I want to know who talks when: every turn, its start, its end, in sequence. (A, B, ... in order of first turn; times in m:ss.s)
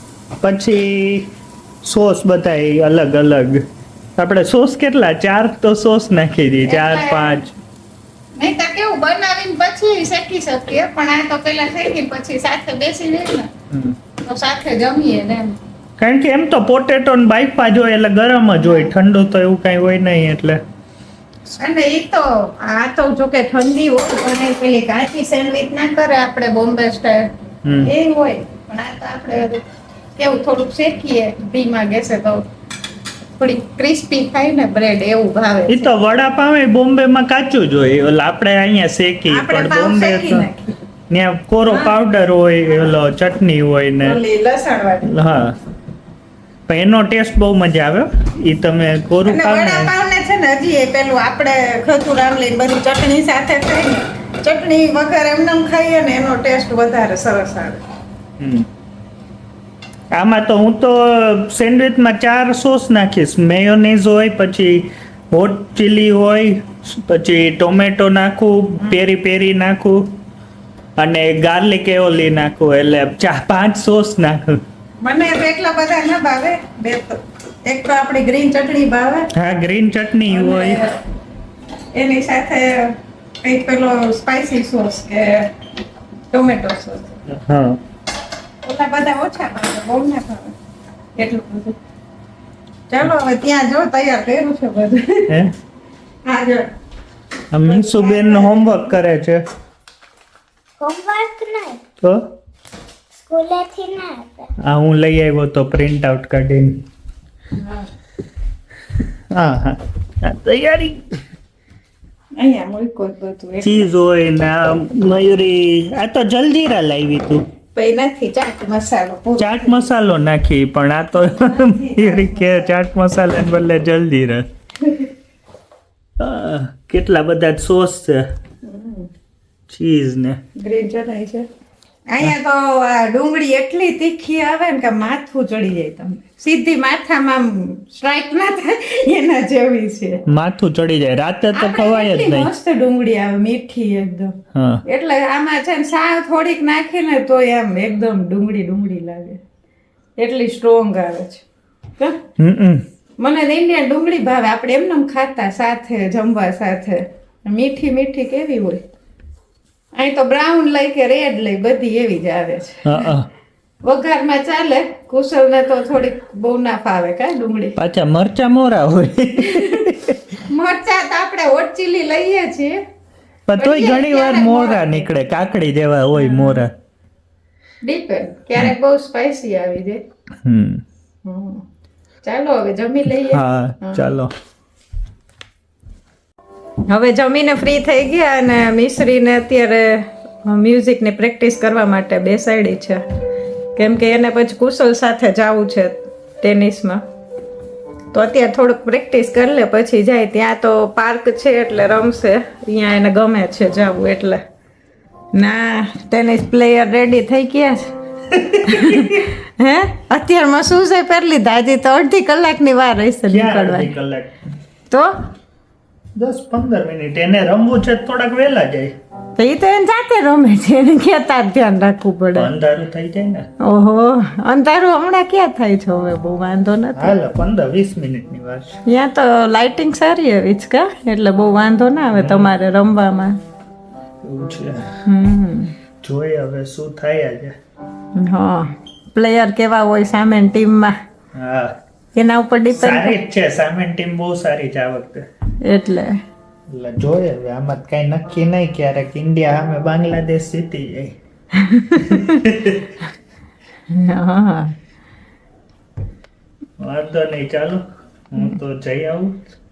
0:00.4-0:01.3 A
0:01.8-0:03.6 A
0:04.2-0:07.5 A
0:06.6-0:07.4 B
0:08.4-0:13.5 B
0:13.7-0:14.0 A
0:14.2-0:15.6 B
0:16.0-0:20.6 A
0:18.6-0:18.9 B
0:21.5-0:27.3 B
0:27.6-0:27.9 A
0:27.8-0:29.6 B
0:30.2-0:32.4 B
0:33.4-0:36.0 B
0:35.7-0:40.5 A
0:39.3-0:40.7 B
0:41.1-0:44.2 A
0:41.7-0:41.9 B
0:44.0-0:45.1 B
0:45.0-0:45.5 A
0:46.7-0:49.9 A
0:49.2-0:57.8 B
0:58.4-0:58.6 A
1:00.1-1:10.0 A
1:11.0-1:14.6 A
1:15.0-1:19.3 B
1:19.3-1:20.8 A
1:20.3-1:21.0 B
1:21.9-1:25.4 B
1:26.3-1:27.2 B
1:27.3-1:27.8 A
1:28.6-1:30.5 B
1:31.2-1:31.8 B
1:32.9-1:35.3 B
1:36.2-1:36.7 B
1:37.5-1:39.4 A
1:37.6-1:38.8 B
1:40.8-1:41.8 C
1:43.2-1:44.5 C
1:44.6-1:46.8 A
1:47.6-1:47.9 B
1:49.3-1:51.0 A
1:52.3-1:53.9 B
1:53.6-1:57.4 A
1:57.7-1:59.9 B
1:59.4-2:04.4 A
2:01.5-2:02.7 B
2:06.2-2:08.2 A
2:08.6-2:09.1 B
2:09.7-2:10.4 A
2:10.6-2:11.5 B
2:12.1-2:20.2 B
2:20.3-2:22.5 A
2:21.5-2:24.3 B
2:24.5-2:24.8 A
2:24.9-2:29.4 B
2:30.2-2:31.4 B
2:32.4-2:32.8 A
2:33.2-2:38.8 B
2:39.9-2:43.1 B
2:42.8-2:43.3 A
2:43.8-2:47.8 B
2:47.8-2:50.2 A
2:49.5-2:49.8 B
2:50.5-2:52.8 B
2:53.5-2:56.7 A
2:53.6-2:55.1 B
2:56.1-2:56.6 B
2:57.8-3:00.0 B
3:00.4-3:00.8 A
3:01.2-3:01.6 B
3:02.2-3:04.0 B
3:03.3-3:04.3 A
3:06.9-3:13.0 B
3:13.8-3:17.0 B
3:18.1-3:24.4 B
3:25.3-3:27.9 B
3:28.3-3:29.3 A
3:28.6-3:33.9 B
3:33.3-3:34.4 A
3:36.2-3:38.9 A
3:39.4-3:42.5 B
3:42.3-3:43.4 A
3:43.6-3:47.1 B
3:47.0-3:48.7 A
3:48.9-3:53.4 B
3:52.1-3:52.5 A
3:54.2-3:54.8 A
3:55.0-3:55.7 B
3:56.0-3:57.5 A
3:58.1-4:00.9 B
4:01.3-4:01.7 A
4:02.1-4:03.2 B
4:02.7-4:05.2 A
4:05.6-4:06.2 B
4:06.7-4:11.2 A
4:11.5-4:12.4 B
4:12.0-4:12.9 A
4:13.9-4:14.8 B
4:16.8-4:19.4 A